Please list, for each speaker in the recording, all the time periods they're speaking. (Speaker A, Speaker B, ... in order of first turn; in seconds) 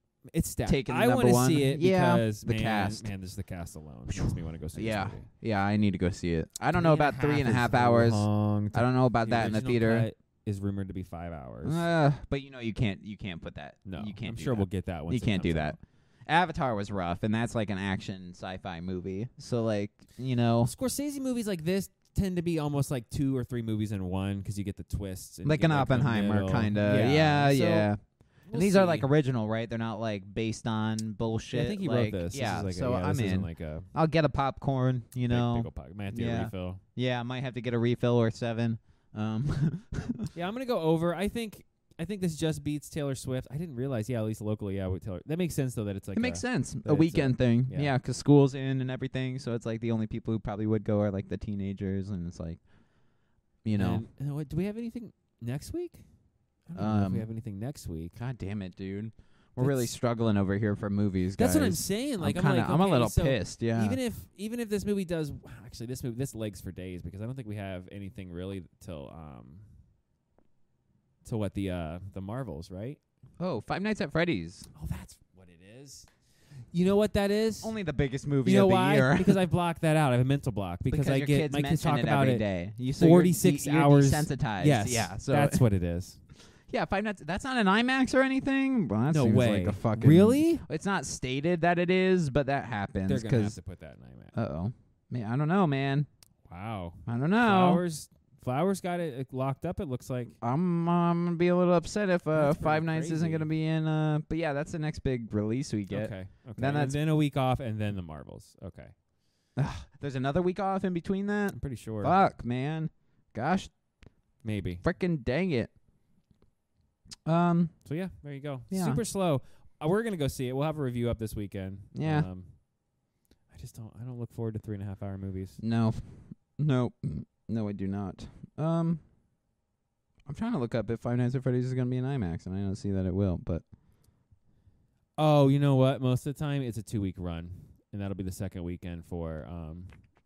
Speaker A: 0.3-5.3, 6.7-11.9, 13.8-15.8, 20.6-27.9, 28.5-29.1, 31.5-33.9, 35.3-36.8, 40.3-47.9, 53.8-56.0, 56.7-58.1, 59.6-60.0, 61.4-69.7, 71.2-73.0, 74.8-76.1, 76.7-77.7, 78.4-82.4, 83.0-86.2, 89.1-90.7, 93.1-94.3, 96.5-100.4, 102.3-103.5, 105.9-108.9, 111.5-112.2, 114.4-114.8, 117.8-122.8, 123.5-125.6, 135.2-139.9
Speaker B: 0.7-3.1, 4.8-10.1, 11.6-20.7, 25.4-28.0, 28.5-40.3, 46.1-52.6, 53.6-54.0, 56.8-57.3, 58.2-64.0, 73.4-74.7, 77.6-79.4, 80.9-85.6, 86.7-93.6, 94.3-96.1, 97.1-97.8, 100.4-107.0, 109.6-113.7, 114.8-115.7, 117.3-117.8, 118.7-119.0, 122.0-122.3, 125.6-129.0, 130.3-133.6